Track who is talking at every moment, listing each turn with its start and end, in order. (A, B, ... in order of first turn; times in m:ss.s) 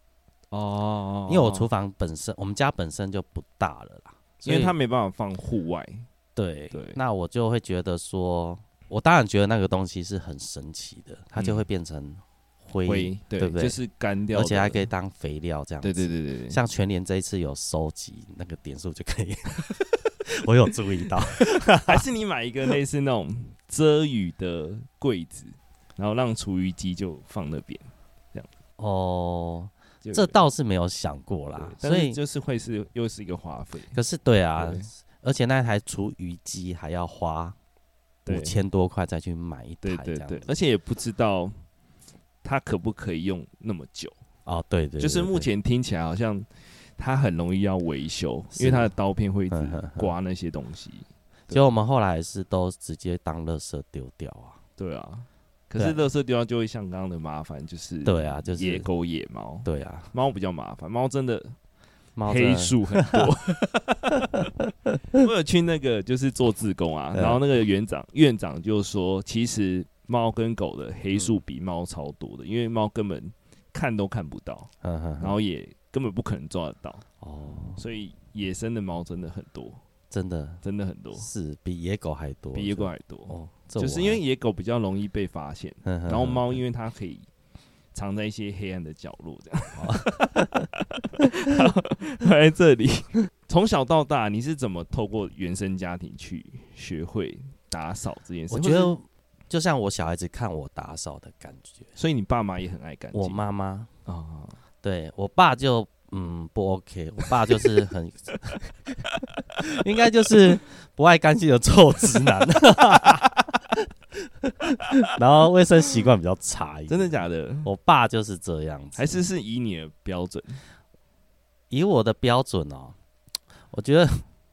0:00.5-0:01.7 A
0:01.3-0:04.7 B
0:04.4-0:06.0 A
0:06.4-0:13.8 B
0:06.7-0:07.0 A
0:11.4-0:11.6 A
0:12.8-0:14.9 A
0:14.3-0:19.6 B
0:15.8-0:16.6 A
0:20.3-0:22.0 B
0:21.8-0:28.5 A
0:28.8-0:32.2 B
0:30.0-0:30.4 A
0:31.5-0:34.0 A
0:33.9-0:37.6 B
0:34.6-0:34.9 A
0:38.2-0:38.6 A
0:38.2-0:40.5 B
0:39.8-0:41.5 A
0:42.4-0:44.2 A
0:44.4-0:45.5 B
0:45.0-0:51.7 A
0:48.5-0:48.9 B
0:49.5-0:50.1 B
0:51.5-0:54.6 B
0:54.8-1:01.6 A
0:58.0-0:58.9 B
0:59.6-1:00.1 B
1:02.2-1:03.3 B
1:02.2-1:04.2 A
1:04.3-1:05.0 B
1:05.1-1:17.0 A
1:07.1-1:07.4 B
1:14.8-1:15.4 B
1:17.2-1:17.8 B
1:17.8-1:19.8 A
1:20.1-1:20.6 B
1:20.6-1:21.3 A
1:21.2-1:24.2 B
1:22.5-1:27.3 A
1:25.8-1:26.6 B
1:27.9-1:38.9 A
1:29.8-1:30.7 B
1:38.5-1:41.9 B
1:42.0-1:43.4 A
1:43.1-1:43.9 B
1:44.1-1:44.6 A
1:44.8-1:48.9 B
1:49.6-1:59.2 B
1:56.9-1:57.7 A
1:59.0-2:00.6 A
2:01.7-2:03.0 B
2:03.7-2:04.2 B